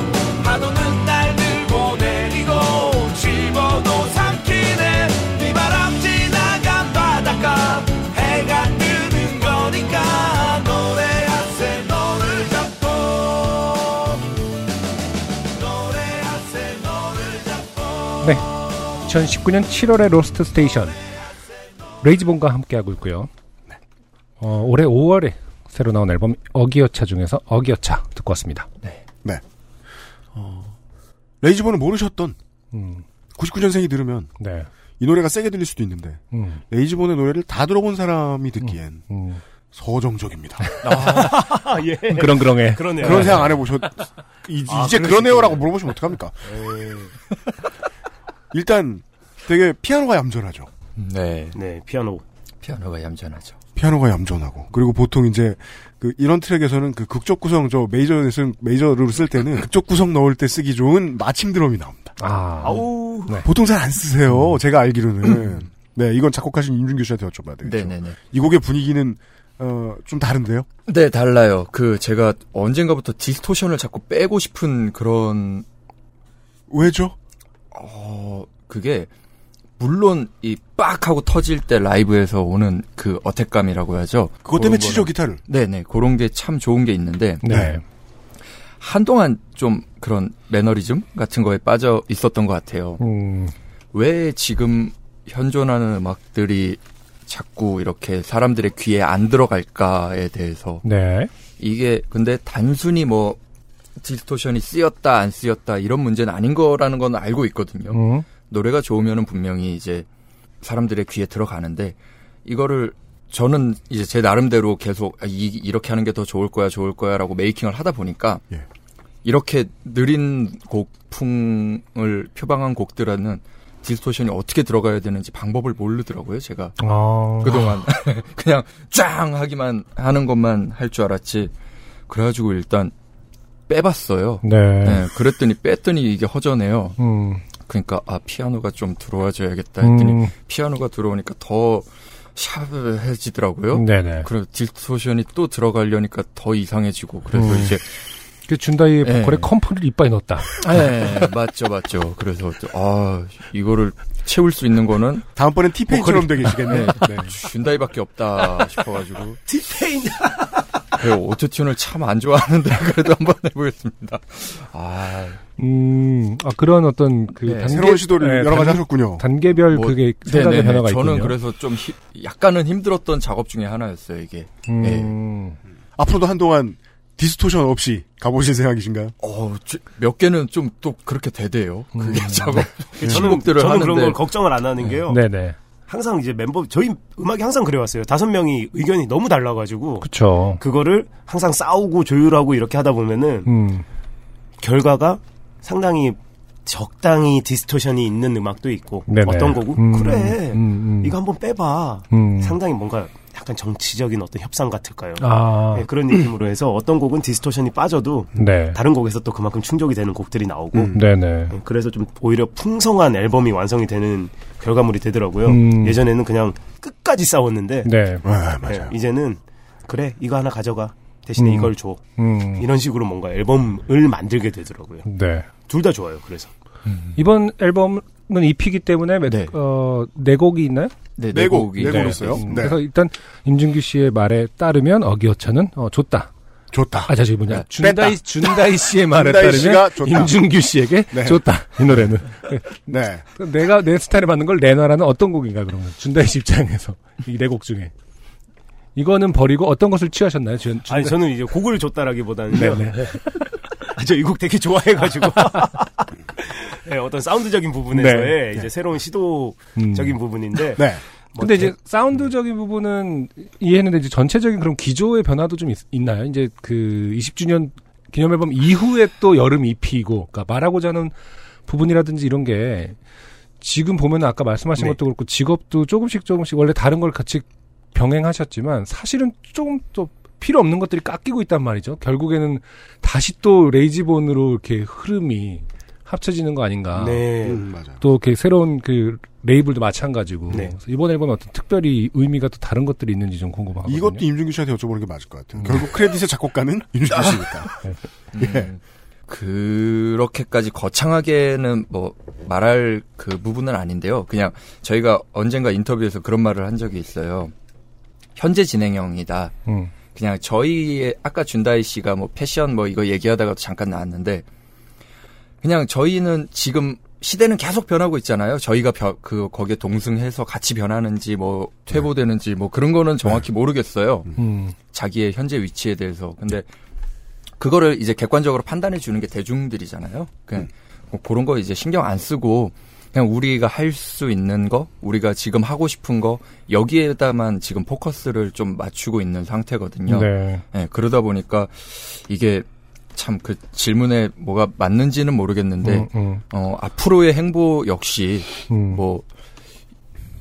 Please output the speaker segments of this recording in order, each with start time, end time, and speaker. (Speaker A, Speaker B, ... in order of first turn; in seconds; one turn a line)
Speaker A: 0.4-14.1
Speaker A: 15.5-18.2
Speaker B: 18.2-18.5
Speaker B: 19.0-20.9
Speaker B: 22.0-23.3
Speaker B: 24.4-28.7
Speaker C: 30.3-30.7
Speaker C: 31.4-32.4
Speaker B: 32.7-33.0
Speaker C: 33.4-34.3
Speaker B: 34.4-34.7
Speaker C: 35.0-39.0
Speaker B: 36.3-36.6
Speaker B: 38.6-39.4
Speaker C: 39.7-40.7
Speaker D: 40.8-41.5
Speaker B: 40.9-41.3
Speaker E: 41.0-43.5
Speaker B: 42.1-43.4
Speaker C: 43.0-46.4
Speaker E: 44.7-45.7
Speaker E: 46.5-47.1
Speaker C: 48.5-50.7
Speaker D: 51.0-51.6
Speaker E: 51.5-52.2
Speaker D: 52.6-53.5
Speaker C: 53.8-62.1
Speaker B: 62.2-63.5
Speaker E: 62.6-63.4
Speaker C: 63.4-70.7
Speaker D: 64.3-64.6
Speaker D: 67.6-68.2
Speaker D: 70.9-75.6
Speaker C: 76.7-77.1
Speaker D: 77.7-79.1
Speaker D: 79.8-87.6
Speaker C: 84.4-85.4
Speaker B: 87.4-87.8
Speaker C: 87.5-87.8
Speaker D: 88.8-93.0
Speaker B: 93.0-93.5
Speaker D: 93.9-100.8
Speaker B: 100.8-101.3
Speaker D: 101.6-103.4
Speaker D: 104.0-110.0
Speaker B: 107.9-108.3
Speaker D: 110.6-118.4
Speaker D: 119.2-126.8
Speaker B: 126.8-127.8
Speaker D: 127.4-131.5
Speaker D: 132.1-132.9
Speaker D: 133.7-136.9
Speaker B: 134.4-135.0
Speaker B: 137.0-137.4
Speaker D: 137.6-147.9
Speaker B: 139.8-140.3
Speaker B: 143.7-144.3
Speaker B: 147.3-147.8
Speaker B: 148.5-151.1
Speaker D: 149.0-149.5
Speaker D: 150.6-155.3
Speaker C: 155.3-157.3
Speaker D: 155.9-159.4
Speaker B: 156.4-157.3
Speaker E: 159.5-160.6
Speaker D: 160.9-165.4
Speaker B: 165.6-171.3
Speaker D: 167.4-168.1
Speaker C: 167.7-169.2
Speaker D: 169.7-175.1
Speaker B: 174.7-175.6
Speaker C: 175.9-179.1
Speaker D: 179.2-184.2
Speaker B: 181.9-182.7
Speaker E: 183.0-185.2
Speaker B: 185.1-185.6
Speaker E: 185.9-193.5
Speaker B: 190.0-190.6
Speaker B: 193.4-193.8
Speaker E: 194.6-210.9
Speaker B: 199.1-201.1
Speaker B: 202.1-202.6
Speaker B: 205.2-205.9
Speaker B: 208.3-208.8
Speaker B: 210.9-211.5
Speaker E: 211.5-217.9
Speaker B: 215.5-216.0
Speaker B: 217.8-218.2
Speaker C: 218.2-218.9
Speaker E: 218.6-222.0
Speaker B: 221.4-222.7
Speaker E: 222.6-225.0
Speaker B: 225.1-225.4
Speaker E: 225.7-226.5
Speaker D: 226.8-227.2
Speaker B: 227.2-230.9
Speaker D: 229.2-229.5
Speaker D: 231.2-232.7
Speaker C: 231.3-232.8
Speaker B: 231.8-236.3
Speaker C: 236.7-237.1
Speaker B: 237.1-247.9
Speaker C: 237.8-238.2
Speaker C: 239.1-240.5
Speaker C: 241.1-241.4
Speaker C: 242.9-243.2
Speaker B: 248.9-251.2
Speaker E: 250.9-253.2
Speaker B: 252.5-253.3
Speaker E: 253.9-261.7
Speaker B: 257.9-258.4
Speaker B: 259.8-260.1
Speaker B: 261.4-271.1
Speaker B: 271.7-273.0
Speaker B: 273.6-287.3
Speaker E: 286.9-287.6
Speaker C: 287.4-288.0
Speaker B: 288.0-294.2
Speaker C: 293.9-297.7
Speaker B: 295.5-295.8
Speaker D: 297.1-297.5
Speaker D: 298.3-307.5
Speaker C: 298.4-298.7
Speaker D: 308.4-314.4
Speaker B: 309.7-309.9
Speaker D: 315.6-324.3
Speaker B: 324.4-324.7
Speaker D: 324.9-326.7
Speaker D: 327.6-349.2
Speaker B: 340.1-340.6
Speaker B: 345.8-346.4
Speaker B: 348.7-349.0